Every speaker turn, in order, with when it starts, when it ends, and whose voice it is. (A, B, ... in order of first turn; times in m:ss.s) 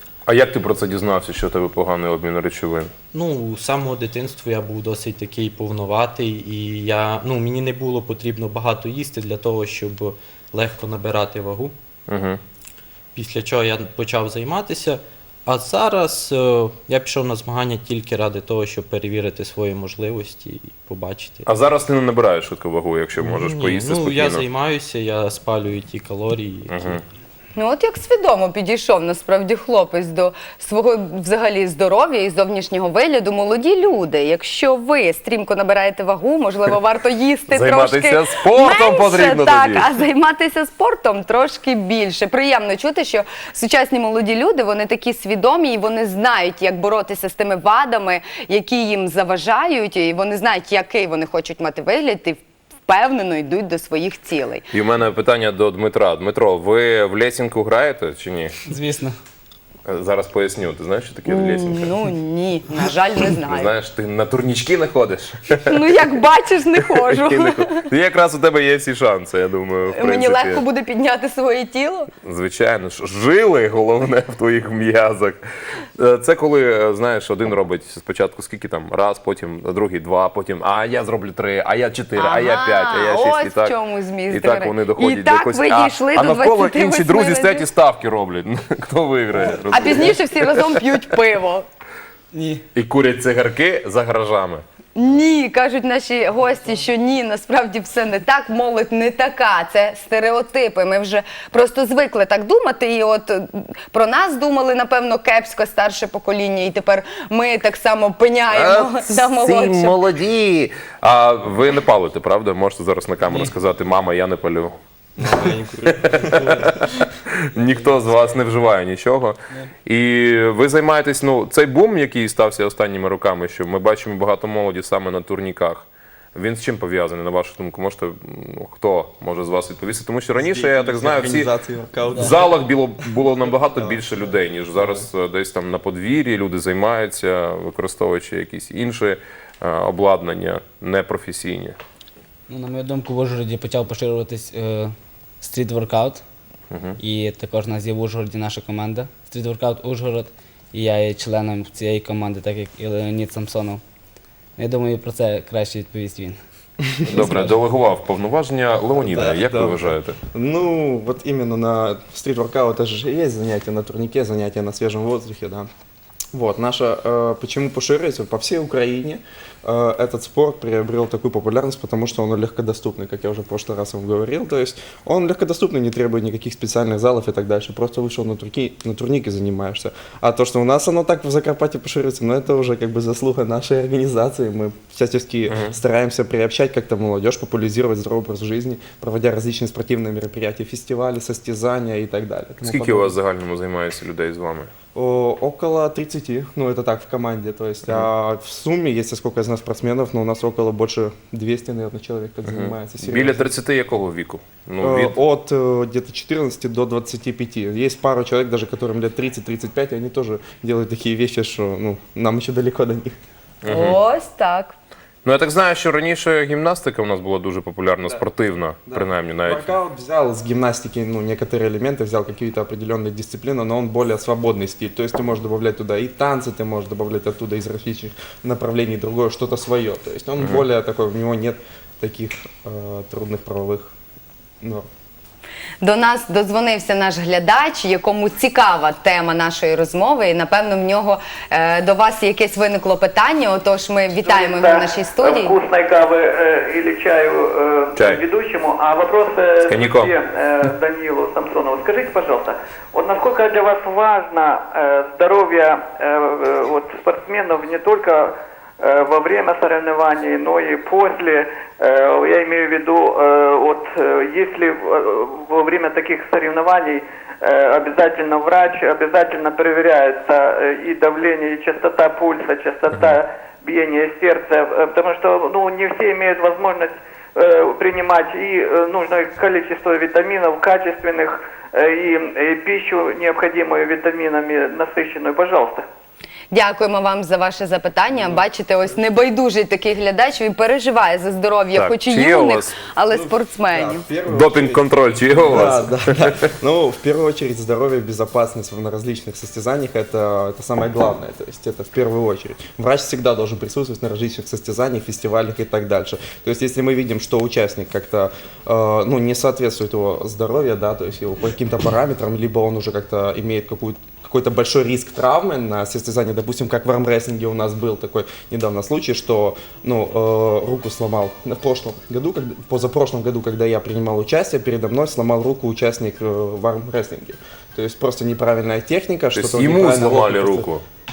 0:00.2-0:02.9 A
0:03.1-0:11.7 B
0:12.1-0:12.4 A
0:13.1-0:21.5 B
0:21.4-0:24.4 A
0:23.2-0:27.0 B
0:26.7-0:27.0 A
0:27.6-0:54.6 C
0:37.5-0:39.9 A
0:54.7-0:58.5 A
0:58.7-0:59.2 D
0:59.8-1:01.9 A
1:01.2-1:03.7 C
1:03.5-1:06.0 A
1:05.7-1:07.8 C
1:06.9-1:10.6 A
1:09.9-1:12.1 C
1:12.2-1:15.4 A
1:16.0-1:23.7 A
1:22.2-1:27.6 C
1:24.3-1:30.8 A
1:29.7-1:31.7 C
1:32.3-1:32.6 D
1:32.7-1:34.6 A
1:34.9-1:50.0 C
1:48.5-1:54.8 A
1:55.2-1:56.8 E
1:55.9-2:11.5 A
2:10.3-2:12.5 E
2:12.1-2:21.8 A
2:13.8-2:14.1 E
2:14.7-2:15.0 E
2:22.5-2:26.2 D
2:26.7-2:27.0 A
2:27.0-2:33.8 D
2:34.6-2:36.4 D
2:36.9-2:37.3 E
2:37.0-2:40.2 A
2:37.1-2:37.5 D
2:39.0-2:45.7 E
2:46.3-3:13.1 E
3:05.5-3:05.8 A
3:12.6-3:14.7 A
3:14.9-3:23.4 E
3:22.4-3:25.2 A
3:24.8-3:33.1 E
3:33.6-3:34.0 A
3:33.7-3:34.8 C
3:35.2-3:39.7 A
3:38.9-3:53.9 E
3:50.4-3:50.6 A
3:54.6-3:54.9 E
3:55.8-4:05.6 C
4:04.2-4:45.8 F
4:08.0-4:08.2 A
4:09.6-4:10.1 A
4:32.9-4:33.2 A
4:46.5-4:54.0 C
4:51.7-4:52.7 A
4:53.1-5:30.7 E
4:54.2-4:56.3 A
5:29.3-5:30.8 A